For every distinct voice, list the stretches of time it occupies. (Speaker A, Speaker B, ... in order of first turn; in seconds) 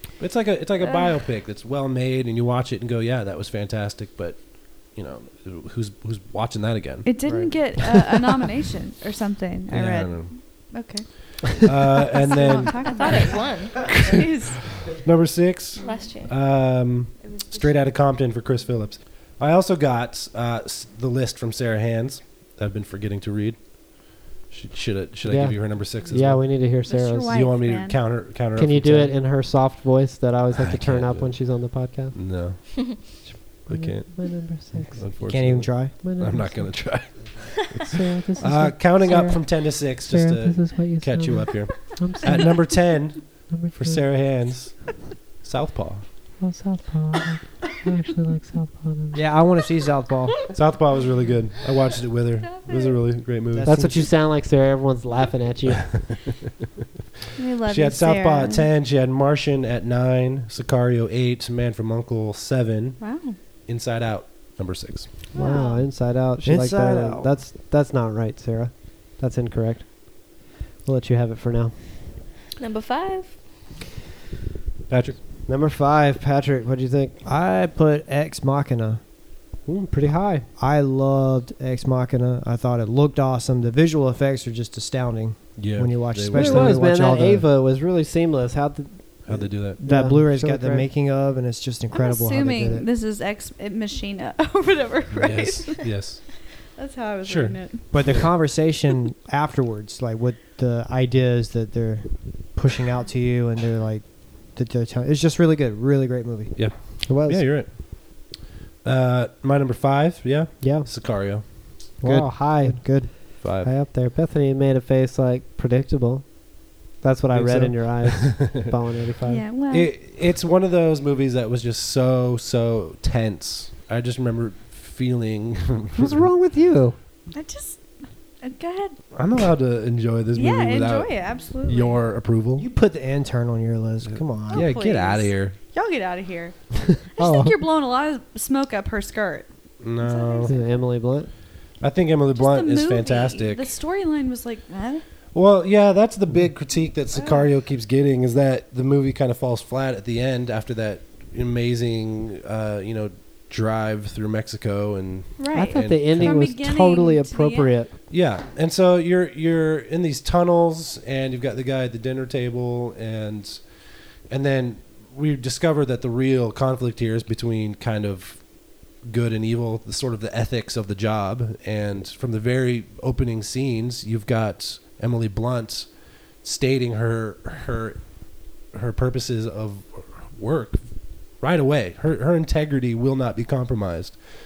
Speaker A: 0.2-7.1, 9.7-10.3, 11.6-26.5, 27.3-29.2, 30.5-31.6, 32.1-34.3, 34.9-46.1, 50.5-54.0, 57.6-65.2, 74.9-75.2, 85.6-86.8, 89.2-89.8, 95.1-96.3, 97.2-98.3, 106.5-111.9, 113.4-113.7, 117.3-118.7, 119.7-126.3, 129.1-131.1, 131.7-132.7, 134.1-135.6, 139.8-140.5, 141.8-143.7, 145.3-156.4, 158.1-163.7, 164.3-168.4, 169.0-178.1, 178.7-184.2
Speaker B: 0.8-1.1, 7.0-14.8, 15.8-16.1, 17.2-17.9, 26.9-28.0, 57.4-58.7, 63.0-63.4, 65.3-65.8, 91.9-97.9, 119.2-119.9, 127.3-129.0, 130.3-132.0, 134.5-139.5, 140.0-140.7, 142.3-145.0, 147.1-147.5, 155.4-157.7
Speaker C: 7.2-7.5, 35.2-36.0, 49.1-50.5, 53.5-54.1, 66.4-67.3, 77.2-79.0, 80.6-87.5, 89.8-92.9, 97.9-106.6, 112.0-113.1, 132.6-134.7
Speaker D: 12.4-14.0, 15.8-16.3, 52.5-53.0, 72.6-73.3
Speaker E: 25.2-27.3, 28.5-32.1, 33.3-35.1, 36.0-36.8, 37.9-42.6, 43.5-44.0, 46.4-49.2, 53.6-55.9, 65.3-71.8, 75.5-77.2, 79.6-80.5, 86.3-90.9, 107.0-107.5, 110.6-110.9, 112.0-119.4, 126.0-127.0, 137.2-137.5, 140.5-141.3, 155.5-157.9